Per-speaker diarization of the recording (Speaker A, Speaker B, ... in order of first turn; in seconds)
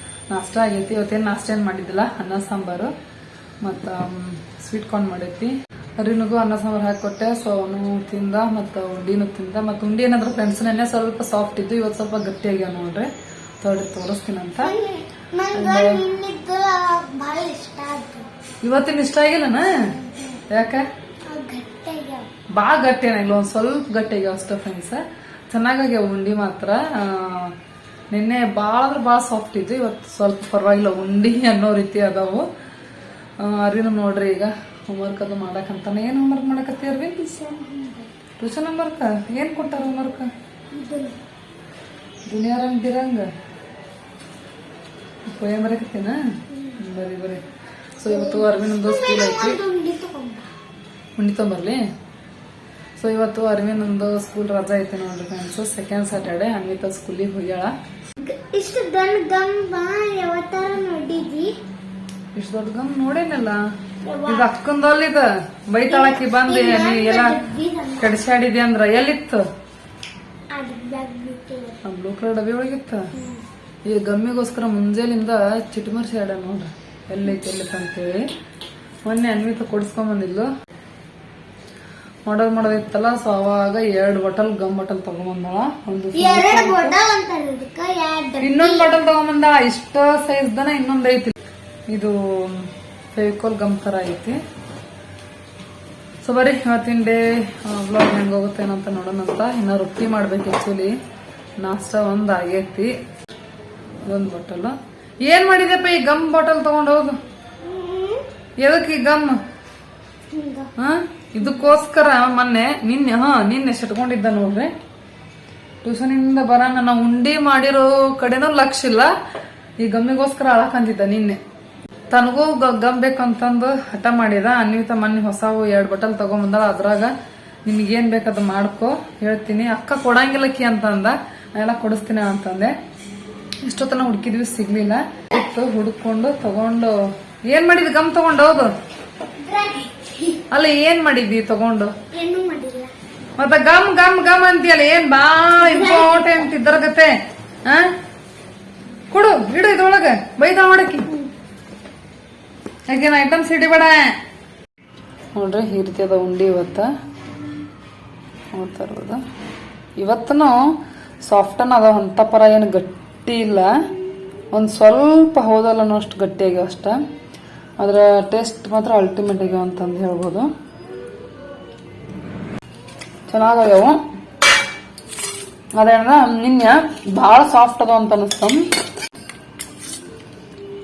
Speaker A: 0.3-2.9, 3.6-13.1, 13.6-14.8, 15.5-16.1, 18.6-19.9, 20.5-20.8, 22.5-27.6, 28.1-32.5, 33.4-37.4, 38.4-40.3, 42.2-43.3, 45.2-46.1, 46.8-47.4, 48.0-49.6, 51.1-51.8, 52.9-57.7, 62.3-63.6, 64.2-67.4, 68.0-69.4, 71.8-73.1, 73.8-78.3, 79.0-80.5, 82.2-87.0, 88.4-91.3, 91.9-94.4, 96.2-100.9, 101.6-102.9, 104.0-107.2, 108.6-109.4, 110.8-114.7, 115.8-119.1, 119.8-121.4, 122.1-127.1, 127.6-132.7, 133.6-136.9, 137.5-138.7, 140.5-141.9, 143.4-147.1, 147.6-147.9, 149.1-151.2, 152.9-154.1, 155.3-156.9, 158.5-159.2, 160.0-163.7, 164.5-167.0, 167.8-170.5, 173.3-174.0, 175.8-178.7
Speaker B: 14.6-18.3, 20.0-20.4, 21.3-22.3, 37.3-38.1, 40.7-41.2, 46.5-46.8, 48.0-50.5, 58.2-61.6, 64.0-64.5, 65.9-68.1, 70.5-71.8, 73.2-73.4, 86.1-88.9, 107.6-108.3, 110.3-110.7, 139.4-140.4, 142.1-142.9, 145.6-146.5